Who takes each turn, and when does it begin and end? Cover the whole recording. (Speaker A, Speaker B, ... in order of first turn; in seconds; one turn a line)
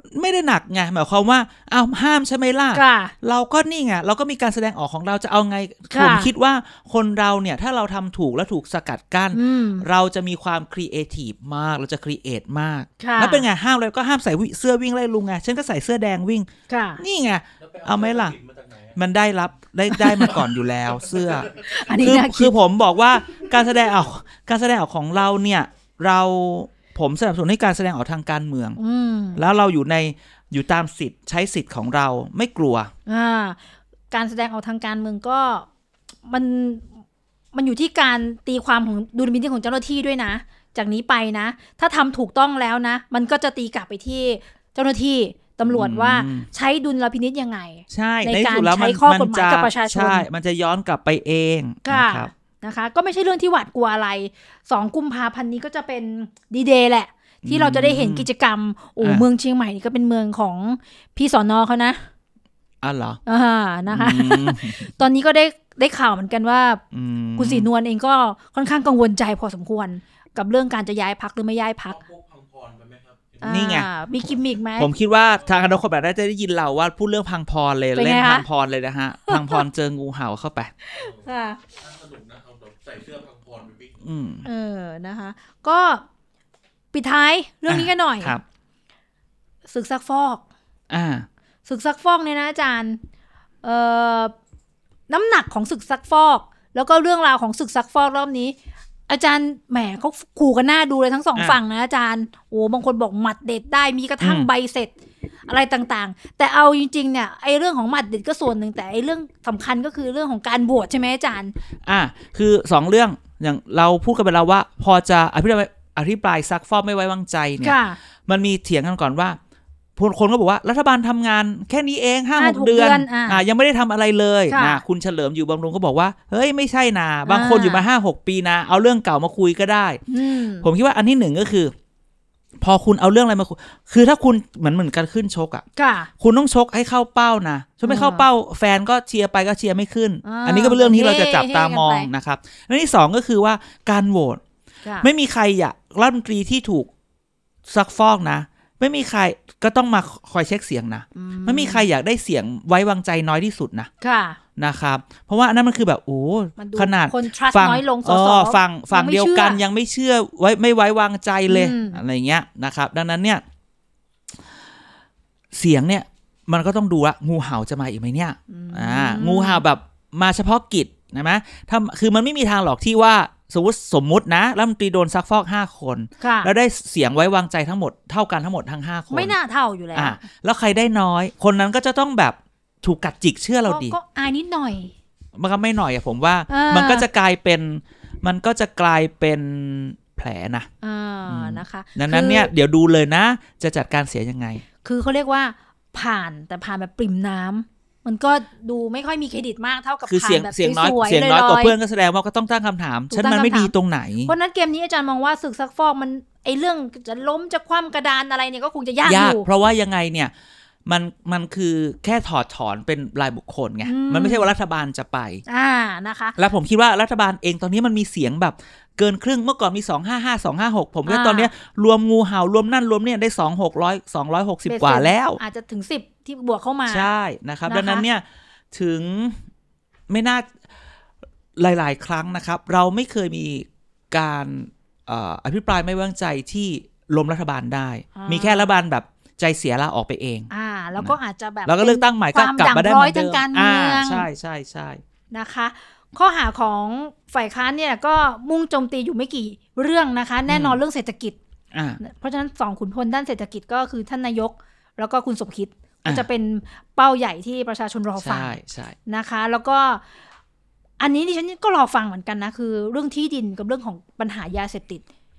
Speaker A: 0.1-16.5
Speaker B: 2.7-3.1
Speaker B: 5.9-6.3
Speaker B: 9.3-9.9
Speaker B: 13.0-13.5
Speaker B: 16.7-17.0
Speaker A: 17.0-18.4
Speaker C: 17.6-19.0
Speaker A: 18.9-28.8
Speaker B: 19.9-20.4
Speaker C: 20.3-22.1
Speaker B: 21.6-22.5
Speaker B: 28.8-29.4
Speaker A: 29.4-32.9
Speaker B: 33.1-33.6
Speaker B: 34.1-35.7
Speaker B: 36.3-36.9
Speaker B: 37.5-50.3
Speaker A: 45.6-46.5
Speaker A: 47.9-52.3
Speaker B: 51.9-62.1
Speaker A: 57.5-58.3
Speaker A: 62.8-63.2
Speaker B: 63.3-66.8
Speaker A: 63.9-64.9
Speaker A: 66.9-67.7
Speaker B: 67.4-72.0
Speaker C: 71.9-73.8
Speaker B: 73.4-74.9
Speaker A: 73.5-73.9
Speaker A: 74.8-80.7
Speaker C: 75.2-75.7
Speaker B: 78.0-78.5
Speaker B: 79.3-79.6
Speaker B: 80.8-81.6
Speaker C: 81.0-84.0
Speaker A: 84.0-84.5
Speaker B: 84.5-86.0
Speaker B: 86.9-88.4
Speaker A: 87.7-88.4
Speaker B: 89.7-90.4
Speaker A: 90.9-91.3
Speaker B: 91.7-93.0
Speaker B: 93.6-94.3
Speaker B: 95.1-98.6
Speaker B: 99.1-104.9
Speaker A: 104.2-104.5
Speaker B: 105.5-111.5
Speaker A: 111.9-119.4
Speaker B: 117.6-118.0
Speaker A: 120.0-130.0
Speaker B: 122.4-123.5
Speaker B: 124.5-124.8
Speaker B: 127.3-127.8
Speaker B: 130.1-130.7
Speaker A: 130.6-131.7
Speaker A: 132.6-135.7
Speaker B: 135.8-136.1
Speaker A: 136.2-144.4
Speaker B: 137.8-138.3
Speaker B: 140.2-142.1
Speaker B: 144.8-145.1
Speaker A: 145.0-146.9
Speaker A: 147.7-153.9
Speaker B: 151.2-151.9
Speaker B: 154.0-154.4
Speaker A: 154.6-163.4
Speaker B: 156.6-159.6
Speaker B: 161.5-162.0
Speaker A: 165.5-179.3
Speaker B: 168.5-169.6
Speaker B: 176.2-176.5
Speaker B: 179.1-180.2
Speaker A: 179.9-184.0
Speaker B: 183.7-184.9
Speaker A: 185.4-190.7
Speaker B: 186.5-187.1
Speaker B: 190.8-192.5
Speaker A: 191.3-194.7
Speaker B: 194.8-201.8
Speaker A: 200.1-204.3
Speaker B: 203.1-203.7
Speaker B: 204.2-209.5
Speaker A: 209.0-210.3
Speaker A: 210.9-215.4
Speaker B: 213.8-214.5
Speaker B: 215.5-216.3
Speaker A: 216.4-225.4
Speaker B: 221.1-221.5
Speaker B: 224.7-227.1
Speaker A: 226.9-229.4
Speaker B: 227.7-228.1
Speaker A: 230.1-230.5
Speaker A: 231.6-245.0
Speaker B: 238.2-238.7
Speaker B: 240.5-244.3
Speaker B: 245.3-251.4
Speaker A: 250.5-250.8
Speaker A: 251.7-252.0
Speaker B: 252.0-258.6
Speaker A: 258.2-259.0
Speaker B: 259.1-260.0
Speaker B: 261.0-265.0